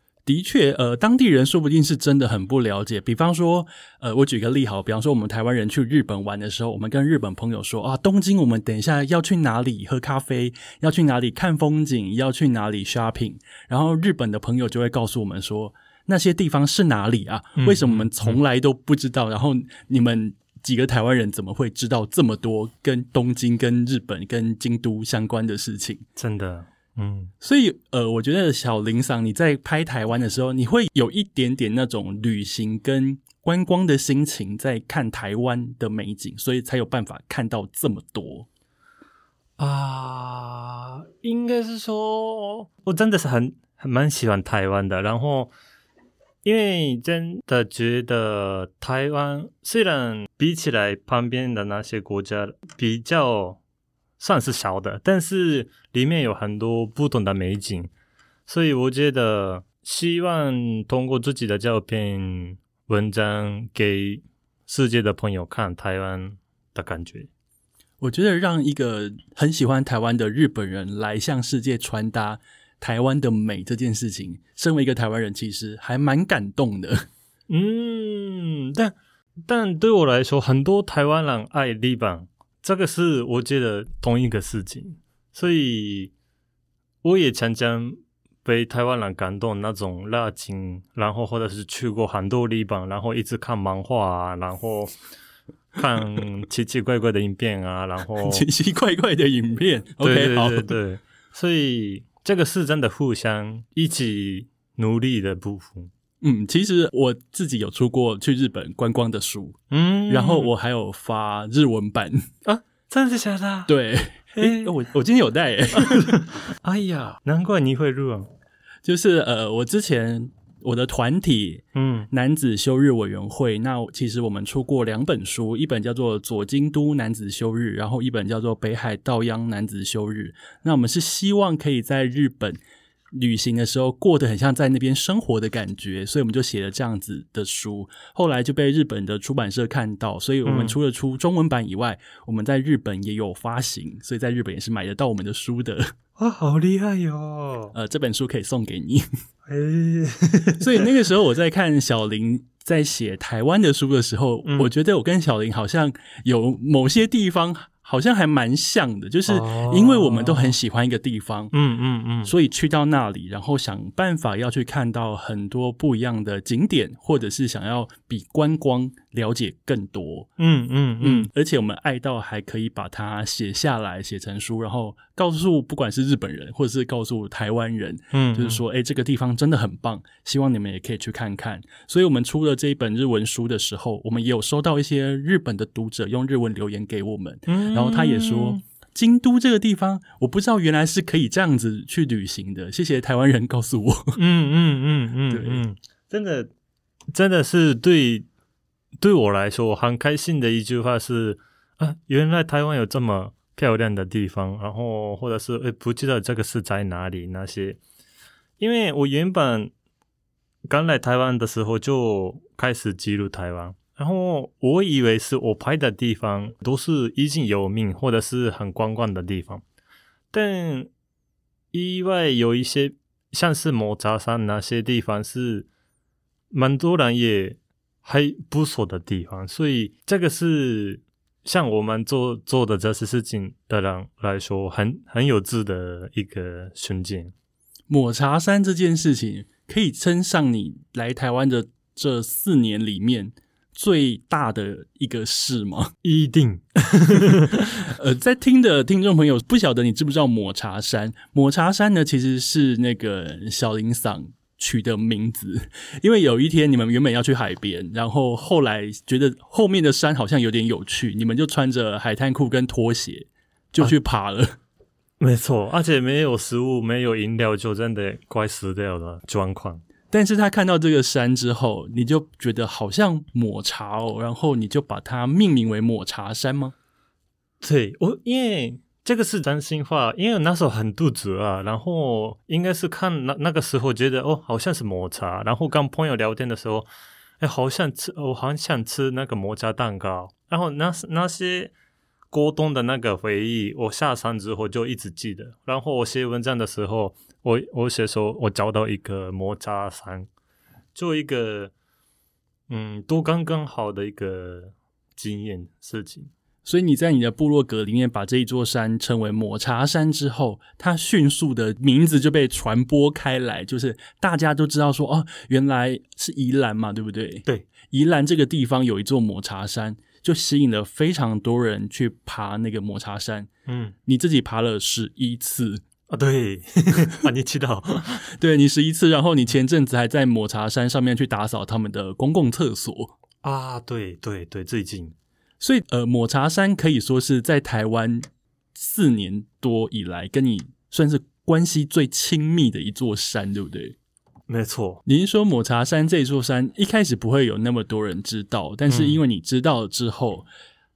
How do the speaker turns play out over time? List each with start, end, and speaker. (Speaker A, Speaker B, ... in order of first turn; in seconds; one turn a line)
Speaker A: 0.3-26.0
Speaker B: 17.6-18.4
Speaker B: 26.1-27.3
Speaker A: 27.4-38.5
Speaker B: 39.6-45.5
Speaker B: 46.4-53.6
Speaker B: 54.2-57.9
Speaker B: 58.5-67.3
Speaker A: 68.0-77.0
Speaker B: 77.5-78.9
Speaker B: 79.5-86.1
Speaker B: 87.0-94.9
Speaker B: 95.8-98.4
Speaker A: 98.2-100.7
Speaker B: 100.0-105.9
Speaker A: 106.2-112.3
Speaker B: 109.7-110.5
Speaker B: 112.4-113.7
Speaker A: 113.7-116.2
Speaker B: 114.4-114.7
Speaker B: 115.8-118.3
Speaker A: 118.8-132.6
Speaker B: 121.7-122.1
Speaker A: 133.1-145.9
Speaker B: 140.4-140.8
Speaker B: 146.2-147.7
Speaker A: 147.7-149.0
Speaker B: 149.4-150.9
Speaker A: 150.6-161.5
Speaker B: 159.3-160.6
Speaker B: 161.5-162.3
Speaker A: 162.2-170.3
Speaker B: 170.4-171.3
Speaker A: 171.0-194.2
Speaker B: 178.1-178.6
Speaker B: 187.5-188.6
Speaker B: 194.2-196.5
Speaker A: 195.3-195.6
Speaker B: 197.1-198.2
Speaker B: 199.0-207.8
Speaker B: 208.6-209.7
Speaker B: 210.7-219.6
Speaker B: 220.3-220.9
Speaker B: 221.7-225.7
Speaker B: 226.5-237.3
Speaker A: 237.9-245.9
Speaker B: 246.0-247.8
Speaker A: 247.5-264.6
Speaker B: 265.2-269.8
Speaker A: 270.1-276.7
Speaker B: 277.6-286.9
Speaker B: 287.4-291.7
Speaker B: 292.3-300.3
Speaker B: 300.9-301.7
Speaker B: 302.7-306.3
Speaker A: 306.6-323.5
Speaker B: 323.7-323.9
Speaker A: 324.0-325.8
Speaker B: 326.1-328.2
Speaker A: 328.3-333.1
Speaker B: 333.4-335.1
Speaker A: 335.6-343.9
Speaker B: 344.5-345.0
Speaker A: 345.1-350.5
Speaker B: 348.9-349.2